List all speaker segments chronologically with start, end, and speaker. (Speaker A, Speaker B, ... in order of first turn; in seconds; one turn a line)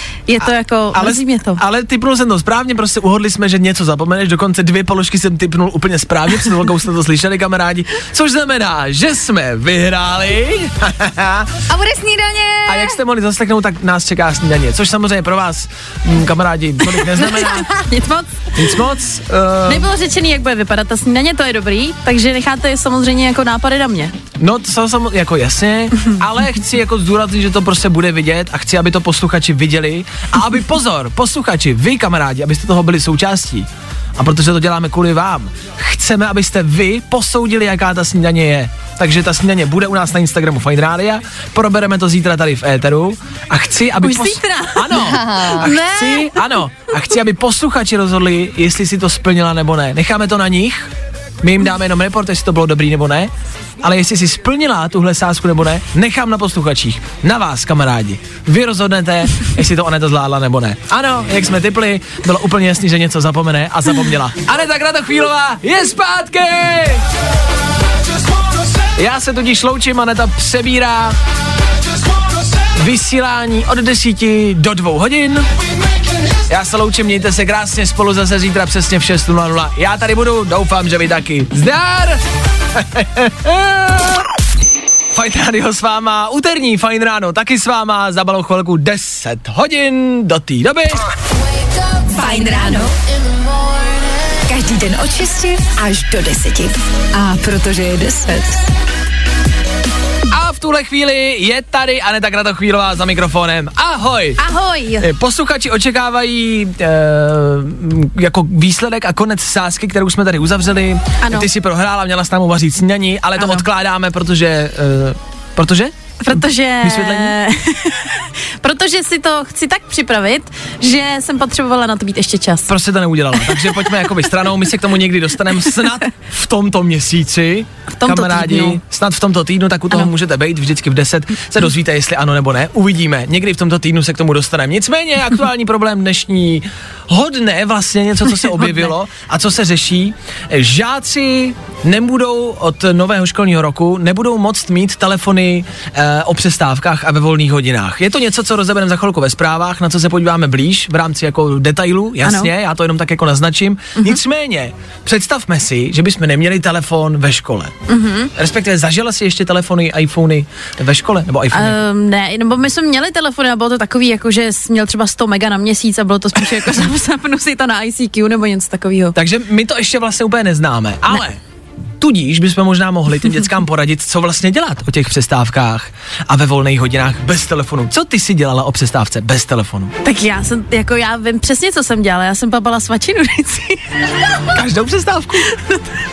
Speaker A: 0.3-1.6
Speaker B: 0.9-11.6
Speaker C: 11.7-13.0
Speaker B: 12.7-17.7
Speaker A: 17.1-18.5
Speaker B: 18.5-19.9
Speaker A: 19.6-24.1
Speaker B: 24.4-50.9
Speaker A: 44.0-46.6
Speaker C: 44.9-45.7
Speaker B: 51.4-53.3
Speaker B: 53.8-67.0
Speaker B: 68.9-71.2
Speaker B: 72.7-75.5
Speaker B: 76.5-82.2
Speaker B: 82.7-84.2
Speaker B: 85.1-91.0
Speaker D: 92.0-93.0
Speaker D: 94.5-98.7
Speaker B: 100.3-104.4
Speaker A: 104.4-105.1
Speaker B: 105.0-117.4
Speaker A: 111.2-111.5
Speaker A: 113.4-113.6
Speaker A: 116.2-122.7
Speaker B: 122.7-157.7
Speaker A: 127.9-128.8
Speaker A: 152.2-152.5
Speaker A: 157.9-158.3
Speaker B: 158.3-161.8
Speaker A: 161.5-169.2
Speaker B: 169.1-171.4
Speaker B: 172.0-179.9
Speaker A: 180.0-183.9
Speaker B: 184.5-185.5
Speaker A: 185.5-185.8